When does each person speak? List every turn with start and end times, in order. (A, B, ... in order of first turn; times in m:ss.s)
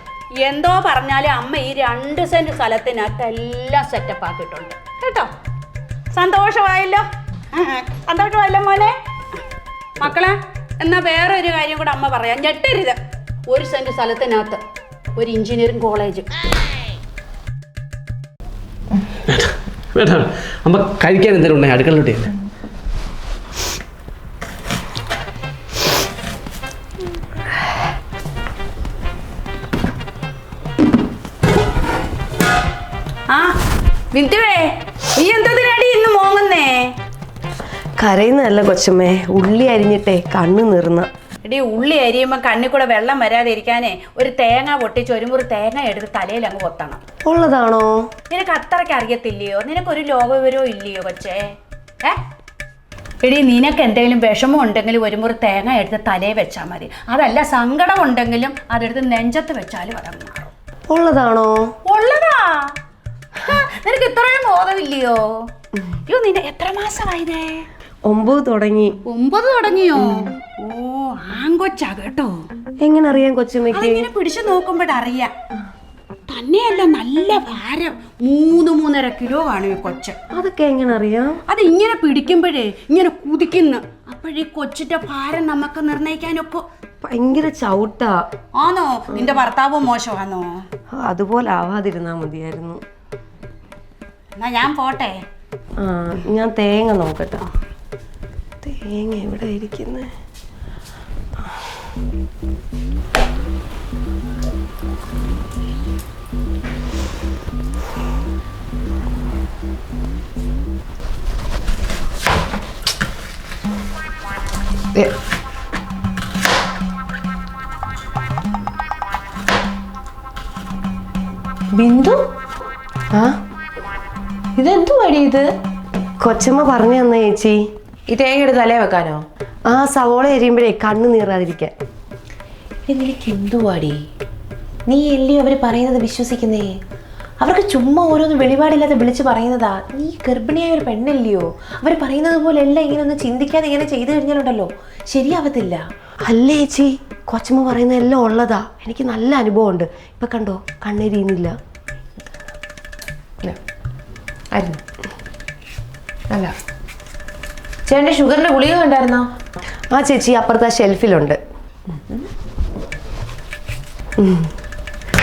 0:00.4-0:05.3 A
0:06.1-0:08.9 A
0:10.0-0:13.0 A
0:13.5-0:14.6 A
0:15.2-0:16.2 A
0:19.3-0:22.3 B
0:33.3-0:33.6 A
0:34.1-0:36.9 A
0:38.0-0:41.1 C
0:41.4-0:47.0 A
0:47.2-0:48.1 C
0:48.3-0:52.2 A
0:53.2-1:00.5 A
1:00.9-1:01.7 C
1:01.8-1:02.7 A
1:03.4-1:05.4 A
1:06.1-1:07.6 A
1:08.0-1:09.0 C
1:09.1-1:12.3 A
1:12.8-1:14.0 C
1:13.7-1:15.3 A
1:16.3-1:20.2 A
1:20.3-1:21.4 C
1:21.5-1:26.6 A
1:27.0-1:28.3 C
1:28.6-1:30.6 A
1:30.9-1:32.8 C
1:34.4-1:35.2 A
1:35.8-1:37.4 C
1:38.6-1:40.1 C
2:01.8-2:02.2 D
2:03.1-2:03.4 C
2:04.6-2:05.5 D
2:06.2-2:07.6 C
2:08.1-2:09.2 D
2:09.7-2:11.7 C
2:12.9-2:14.0 D
2:14.9-2:16.8 D
2:17.4-2:25.8 D
2:26.2-2:31.6 C
2:34.5-2:34.8 D
2:36.3-2:36.5 D
2:37.9-2:39.3 D
2:39.9-2:41.4 C
2:44.2-2:44.5 C